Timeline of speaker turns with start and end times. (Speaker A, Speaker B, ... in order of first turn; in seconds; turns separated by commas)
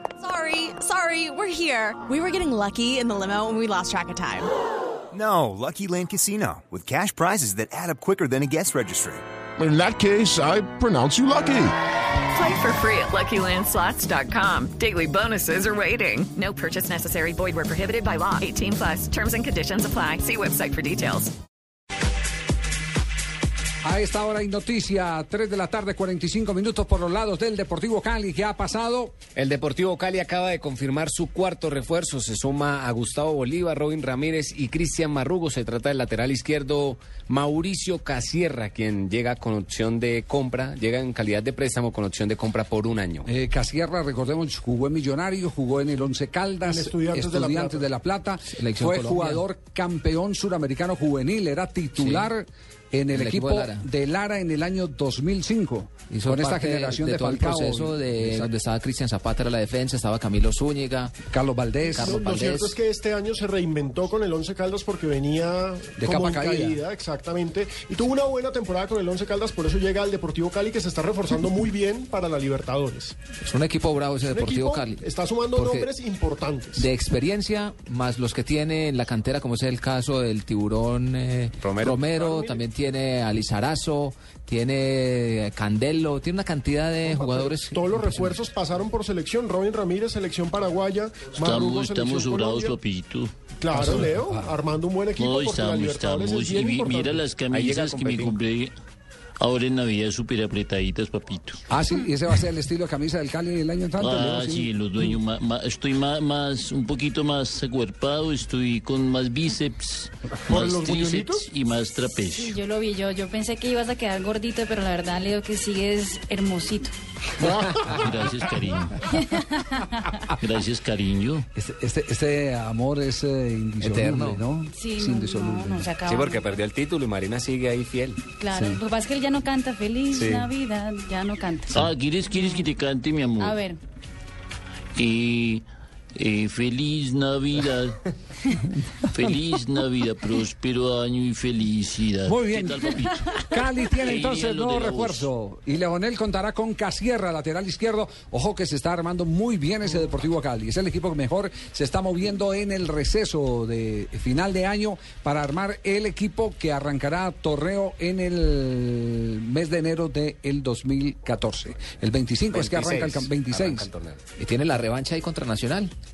Speaker A: 0.2-4.5, Speaker B: 5.1-9.2, Speaker C: 9.6-11.7, Speaker B: 9.9-11.7, Speaker D: 12.4-19.2, Speaker E: 12.5-15.1, Speaker E: 16.1-21.1, Speaker D: 19.7-21.0, Speaker F: 23.8-29.2, Speaker E: 29.4-43.2, Speaker G: 34.6-35.5, Speaker G: 39.7-43.1, Speaker F: 43.2-58.5, Speaker H: 46.6-47.9, Speaker G: 48.5-49.4, Speaker G: 52.0-52.3, Speaker G: 53.1-53.8, Speaker G: 56.1-61.1, Speaker D: 58.5-60.0, Speaker F: 61.3-62.2, Speaker G: 62.0-62.8, Speaker H: 62.0-73.2, Speaker F: 66.0-66.8, Speaker G: 73.4-75.0, Speaker D: 73.5-74.4, Speaker H: 74.3-76.8, Speaker G: 75.5-75.9, Speaker G: 76.8-88.4, Speaker D: 77.0-77.5, Speaker D: 78.0-80.9, Speaker E: 81.6-82.0, Speaker H: 82.1-82.6, Speaker D: 82.9-84.0, Speaker D: 84.5-86.8, Speaker H: 87.0-92.8, Speaker I: 91.4-94.1, Speaker H: 93.6-97.2, Speaker F: 94.3-94.5, Speaker I: 95.2-98.7, Speaker E: 97.5-98.3, Speaker I: 99.4-101.6, Speaker F: 101.7-105.1, Speaker I: 104.0-112.6, Speaker H: 110.5-111.5, Speaker J: 112.3-116.9, Speaker I: 117.4-119.0, Speaker J: 119.1-120.1, Speaker I: 120.3-121.5, Speaker F: 121.5-125.9, Speaker G: 123.8-124.4, Speaker J: 124.7-126.6, Speaker E: 126.1-128.2, Speaker J: 128.4-132.7, Speaker F: 128.5-128.8, Speaker E: 130.2-130.5, Speaker I: 131.7-133.6, Speaker J: 133.4-133.8, Speaker I: 135.0-135.6, Speaker I: 136.2-138.0, Speaker I: 139.1-145.3, Speaker F: 142.2-163.9, Speaker E: 162.5-164.2, Speaker G: 164.4-165.9